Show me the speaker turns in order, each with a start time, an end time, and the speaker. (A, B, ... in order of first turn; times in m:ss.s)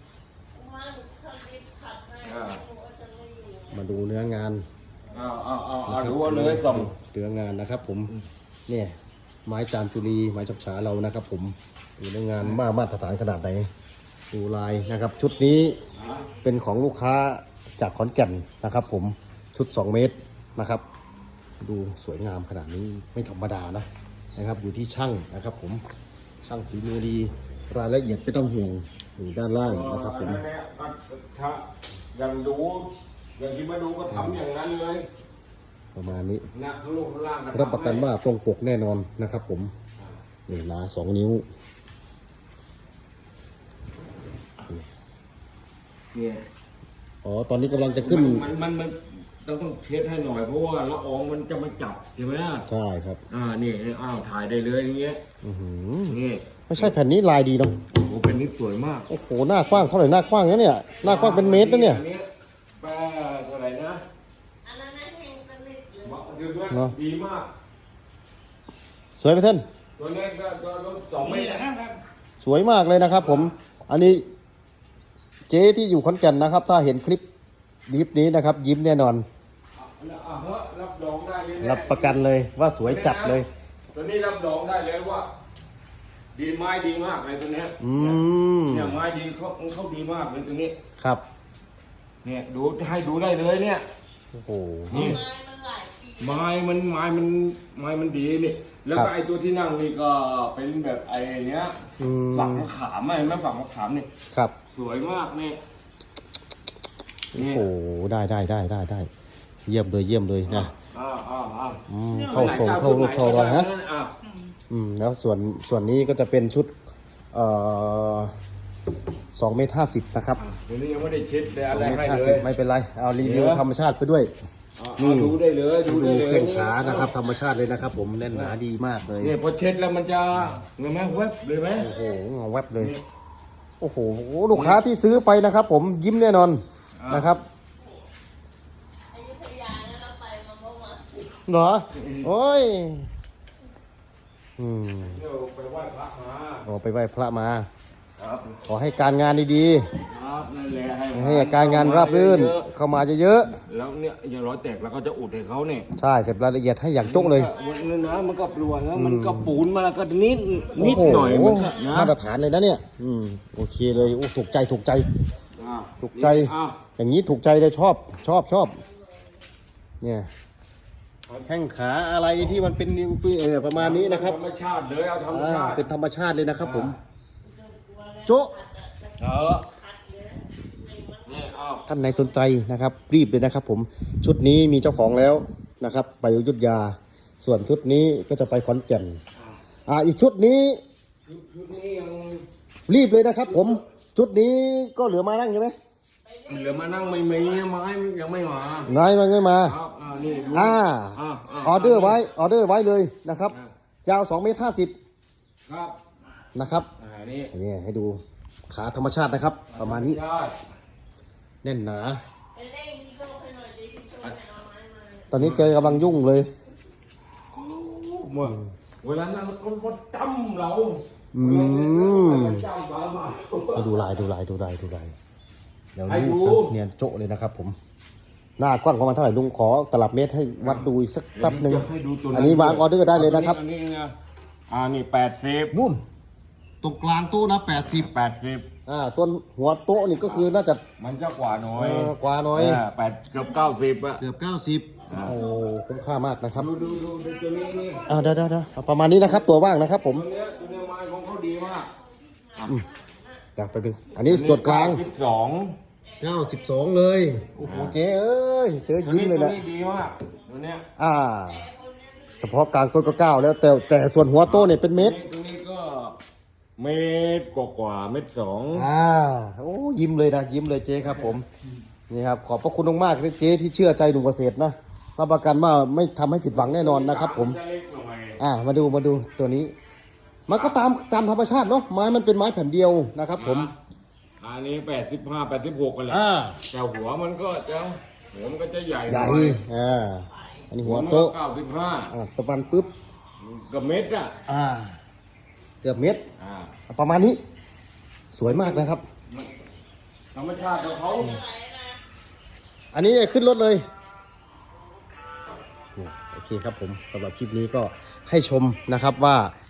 0:00.5-0:03.7 A
0:02.2-0:02.6 B
0:03.7-0:04.6 C
0:05.1-0:06.9 B
0:05.8-0:08.1 C
0:08.7-0:08.9 C
0:09.4-0:13.7 C
0:14.3-0:15.8 C
0:15.9-0:16.3 B
0:16.4-0:20.8 C
0:21.6-0:25.8 C
0:26.4-0:30.4 C
0:29.6-0:35.1 B
0:34.1-0:34.4 C
0:35.9-0:36.4 C
0:36.5-0:38.1 B
0:37.5-0:39.7 C
0:40.5-0:41.4 C
0:46.1-0:46.4 B
0:47.2-0:48.5 C
0:47.6-0:52.7 B
0:52.7-0:53.2 C
0:53.3-0:55.2 B
0:55.4-0:56.2 C
0:56.1-0:56.9 B
0:56.7-0:57.8 C
0:57.9-0:59.1 B
0:59.1-1:02.0 C
1:01.0-1:04.0 B
1:04.6-1:06.3 A
1:06.0-1:07.5 B
1:06.7-1:06.9 C
1:09.2-1:09.6 C
1:10.0-1:12.0 B
1:12.4-1:14.2 C
1:13.1-1:13.5 B
1:15.5-1:17.2 C
1:17.9-1:19.2 C
1:19.7-1:22.2 B
1:21.6-1:23.5 C
1:22.8-1:25.3 B
1:26.3-1:30.8 B
1:27.8-1:29.0 C
1:31.0-1:31.2 C
1:32.2-1:33.8 B
1:34.3-1:35.2 C
1:34.9-1:35.2 B
1:34.9-1:36.4 A
1:36.2-1:41.8 B
1:42.0-1:42.7 C
1:42.3-1:44.1 B
1:44.7-1:45.6 B
1:47.3-1:49.1 C
1:47.3-1:47.6 B
1:49.6-1:50.7 C
1:50.5-1:54.2 B
1:51.9-1:53.7 C
1:54.7-1:56.7 C
1:57.3-1:58.3 C
1:59.3-2:00.4 C
2:00.4-2:02.5 B
2:01.7-2:04.3 C
2:03.2-2:03.6 B
2:04.8-2:07.2 B
2:05.0-2:09.4 C
2:08.3-2:08.5 B
2:09.2-2:11.9 B
2:11.8-2:12.9 C
2:12.8-2:13.0 B
2:13.8-2:17.4 C
2:14.5-2:14.8 B
2:17.0-2:17.3 B
2:19.1-2:21.1 A
2:21.4-2:23.1 C
2:21.9-2:22.3 B
2:24.6-2:25.2 C
2:25.0-2:26.7 B
2:26.6-2:27.7 C
2:28.2-2:28.6 B
2:28.6-2:29.9 C
2:30.0-2:32.7 B
2:31.1-2:33.6 C
2:33.6-2:35.9 B
2:36.0-2:37.5 C
2:37.0-2:42.1 B
2:38.9-2:39.6 C
2:40.8-2:45.1 C
2:45.6-2:46.8 B
2:46.0-2:48.8 C
2:50.0-2:50.3 C
2:51.4-2:54.4 C
2:53.7-2:55.9 B
2:55.3-2:57.0 C
2:56.6-2:56.9 B
2:57.4-3:01.5 A
2:58.2-2:58.5 C
2:59.2-2:59.7 B
3:01.2-3:01.9 B
3:01.9-3:09.2 C
3:09.9-3:10.8 C
3:11.2-3:12.4 B
3:12.9-3:15.8 C
3:16.2-3:17.4 A
3:16.4-3:18.9 B
3:18.9-3:19.8 C
3:19.6-3:22.3 B
3:20.5-3:24.9 C
3:25.6-3:26.0 B
3:26.5-3:26.9 C
3:27.0-3:27.5 B
3:27.5-3:30.2 C
3:29.7-3:30.6 B
3:31.6-3:32.2 C
3:32.5-3:35.3 A
3:35.3-3:36.5 C
3:35.4-3:36.2 B
3:37.5-3:44.0 B
3:41.3-3:42.7 C
3:43.7-3:45.1 C
3:45.9-3:47.8 C
3:46.0-3:46.7 B
3:48.6-3:53.6 C
3:50.6-3:54.1 B
3:54.7-3:55.8 B
3:55.7-3:56.0 C
3:56.8-3:58.1 C
3:57.9-3:58.7 B
3:58.8-4:00.8 C
4:01.0-4:04.2 B
4:01.7-4:02.8 C
4:04.2-4:06.7 C
4:05.1-4:05.4 B
4:06.5-4:08.1 B
4:08.0-4:10.2 C
4:10.0-4:11.9 B
4:12.2-4:13.4 A
4:12.6-4:12.8 B
4:13.6-4:15.0 C
4:14.2-4:15.8 B
4:16.1-4:16.4 A
4:16.2-4:19.6 C
4:17.6-4:18.0 B
4:19.0-4:20.8 B
4:21.0-4:21.7 C
4:21.5-4:22.5 A
4:22.4-4:25.2 C
4:24.4-4:26.2 B
4:26.8-4:28.9 B
4:28.7-4:31.4 C
4:31.0-4:31.3 B
4:32.1-4:37.6 C
4:36.5-4:38.4 B
4:38.4-4:39.7 C
4:40.5-4:43.7 C
4:40.5-4:40.8 B
4:43.4-4:43.7 B
4:44.4-4:49.6 B
4:46.1-4:46.6 C
4:49.1-4:51.4 C
4:50.8-4:52.1 B
4:52.1-4:52.9 C
4:53.4-4:54.4 B
4:54.4-4:55.0 C
4:55.8-4:56.2 C
4:56.4-4:56.7 B
4:56.9-4:57.4 C
4:58.3-4:59.0 C
4:58.5-4:59.5 B
5:00.3-5:01.4 B
5:00.9-5:02.0 A
5:02.9-5:03.8 C
5:06.0-5:09.5 C